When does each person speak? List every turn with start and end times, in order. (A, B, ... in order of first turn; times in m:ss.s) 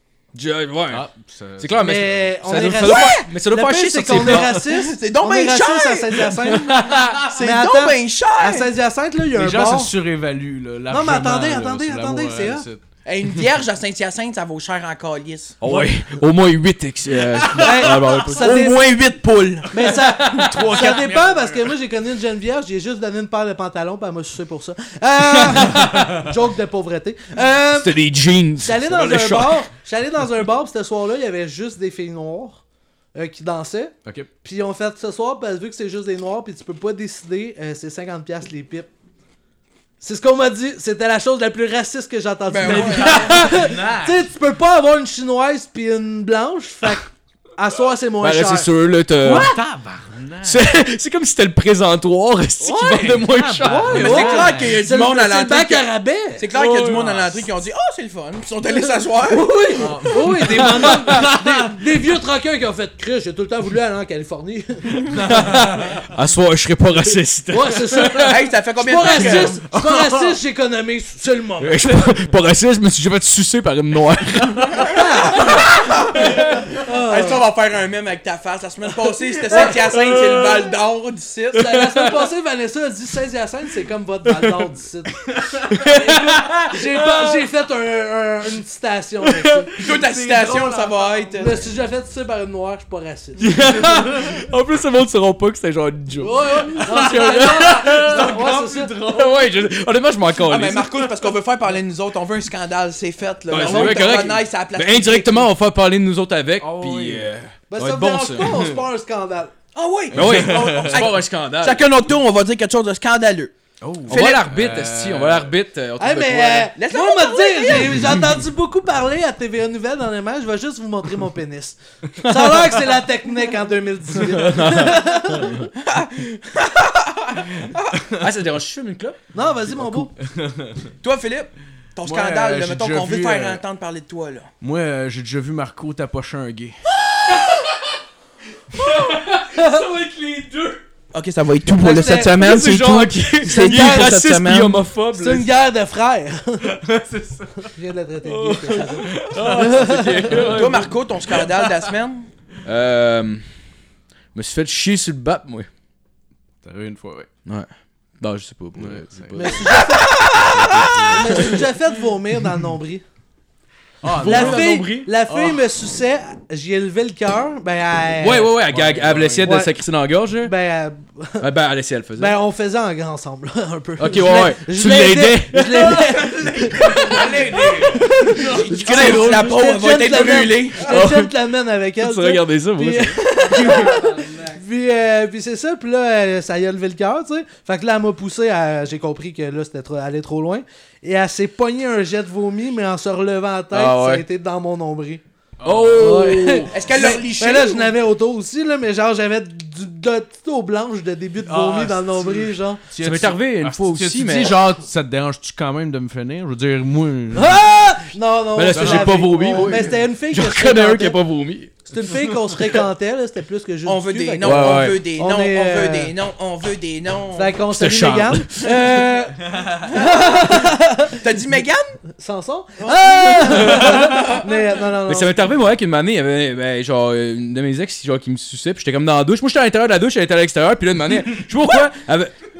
0:00.3-0:01.0 A
0:00.9-0:02.0 B
0:01.6-0:04.6 A
0:01.8-0:09.9 C
0:02.5-0:03.3 D
0:04.3-0:08.7 D
0:06.6-0:07.3 A
0:09.3-0:12.8 B
0:10.9-0:12.6 C
0:13.0-0:15.6 D
0:15.6-0:20.8 A
0:15.6-0:15.9 C
0:17.2-0:18.7 B
0:17.6-0:18.8 C
0:19.7-0:28.0 C
0:19.8-0:21.7 B
0:25.5-0:26.2 A
0:27.7-0:29.7 A
0:28.6-0:32.6 C
0:33.1-0:38.9 C
0:40.0-0:48.7 C
0:42.5-0:43.5 D
0:42.7-0:44.1 B
0:43.1-0:43.9 A
0:48.2-0:49.5 A
0:49.2-0:50.7 B
0:50.4-0:54.4 A
0:52.6-0:54.8 B
0:53.6-0:56.5 C
0:53.9-0:59.5 D
0:56.5-0:57.1 A
0:56.9-0:57.4 B
0:59.2-1:05.2 C
0:59.8-1:01.7 B
1:00.6-1:01.3 A
1:05.2-1:06.0 B
1:05.3-1:08.4 A
1:07.5-1:12.0 C
1:08.2-1:09.6 D
1:09.1-1:09.4 A
1:09.1-1:10.4 B
1:11.6-1:15.6 A
1:14.7-1:21.7 D
1:14.9-1:15.6 C
1:16.1-1:16.6 A
1:16.8-1:17.4 C
1:19.5-1:20.2 C
1:19.6-1:20.7 A
1:21.5-1:29.7 C
1:21.7-1:22.2 A
1:24.3-1:24.6 A
1:25.7-1:27.4 A
1:29.2-1:29.7 A
1:29.8-1:31.6 D
1:29.8-1:31.3 B
1:31.4-1:34.0 C
1:33.4-1:41.1 A
1:36.2-1:39.0 C
1:36.8-1:39.5 B
1:40.4-1:45.5 D
1:43.5-1:48.7 A
1:46.6-1:47.3 B
1:47.7-1:49.5 C
1:49.7-1:53.5 D
1:50.1-1:51.1 B
1:50.1-1:51.8 A
1:53.8-1:55.5 B
1:54.1-1:56.7 A
1:54.1-1:54.5 D
1:56.0-2:05.7 C
1:56.8-1:58.2 D
2:04.3-2:05.6 A
2:05.7-2:08.0 D
2:08.1-2:09.2 A
2:09.3-2:10.1 C
2:10.2-2:10.9 B
2:11.0-2:14.5 D
2:12.0-2:13.6 B
2:14.6-2:16.8 B
2:17.3-2:17.8 A
2:18.7-2:20.8 A
2:21.1-2:24.8 D
2:21.8-2:22.4 C
2:22.2-2:25.5 A
2:23.5-2:24.1 C
2:25.1-2:26.8 C
2:26.6-2:27.7 B
2:27.6-2:30.3 C
2:28.2-2:31.0 A
2:29.1-2:30.8 B
2:30.4-2:32.3 D
2:31.3-2:31.5 B
2:32.6-2:33.5 A
2:34.3-2:35.7 A
2:36.6-2:37.3 B
2:38.2-2:39.8 A
2:38.8-2:39.6 B
2:39.3-2:40.1 C
2:40.0-2:40.9 D
2:40.3-2:41.6 A
2:40.5-2:41.6 B
2:41.1-2:43.0 C
2:44.0-2:45.6 B
2:44.1-2:45.1 A
2:44.2-2:48.6 C
2:48.2-2:50.5 A
2:48.6-2:49.5 B
2:49.4-2:49.8 C
2:50.4-2:51.5 C
2:51.4-2:52.4 A
2:52.2-3:15.2 C
2:54.0-2:57.8 A
2:56.0-2:59.5 B
2:58.3-3:00.9 D
2:58.7-2:59.5 A
3:00.8-3:01.3 A
3:02.0-3:03.3 A
3:03.6-3:04.6 B
3:13.7-3:14.2 A
3:15.6-3:16.4 B
3:15.6-3:16.8 A
3:16.0-3:22.8 C
3:16.7-3:17.9 D
3:21.4-3:27.6 B
3:23.0-3:24.7 A
3:27.3-3:31.2 C
3:28.5-3:31.7 A
3:28.7-3:29.9 B
3:31.9-3:36.1 C
3:33.8-3:37.6 D
3:34.4-3:35.0 A
3:37.3-3:41.2 C
3:37.7-3:38.9 A
3:39.8-3:42.0 D
3:42.2-3:45.4 C
3:43.3-3:44.5 D
3:43.5-3:44.3 A
3:45.0-3:52.3 A
3:51.6-3:51.9 D